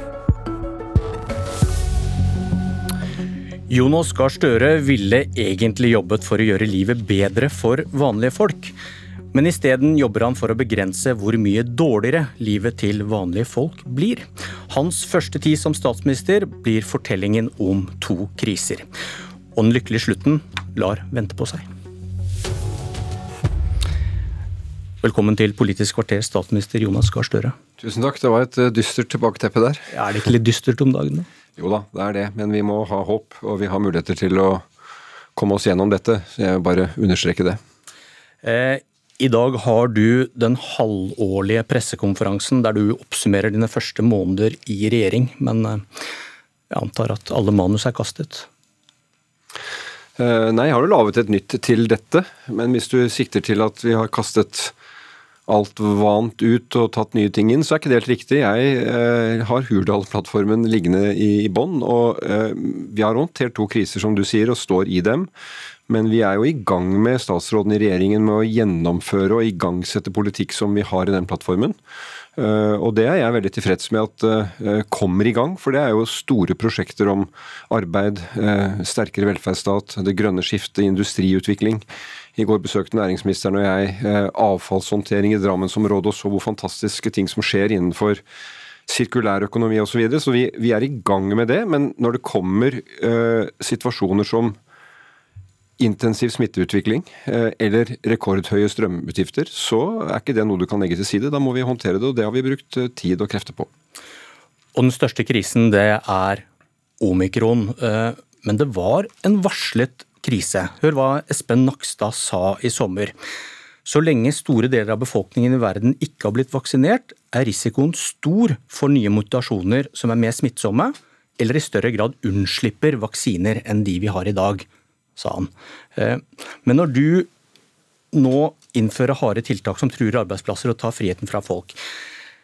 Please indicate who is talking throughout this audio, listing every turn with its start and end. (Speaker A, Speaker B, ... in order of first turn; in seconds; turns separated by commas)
Speaker A: 3.7-8.7, Speaker A: 9.3-18.9, Speaker A: 19.5-21.7, Speaker A: 25.0-27.5, Speaker B: 27.8-29.9, Speaker A: 29.9-31.3, Speaker B: 31.6-34.6, Speaker B: 35.4-37.6, Speaker A: 38.4-45.8, Speaker A: 46.7-48.5, Speaker B: 50.2-54.7, Speaker B: 55.5-65.3, Speaker B: 65.9-71.8, Speaker B: 72.4-81.8, Speaker B: 82.4-88.2, Speaker B: 88.9-94.6, Speaker B: 95.8-103.7, Speaker A: 104.7-106.5, Speaker A: 107.0-113.1, Speaker A: 113.8-127.3, Speaker A: 128.1-131.8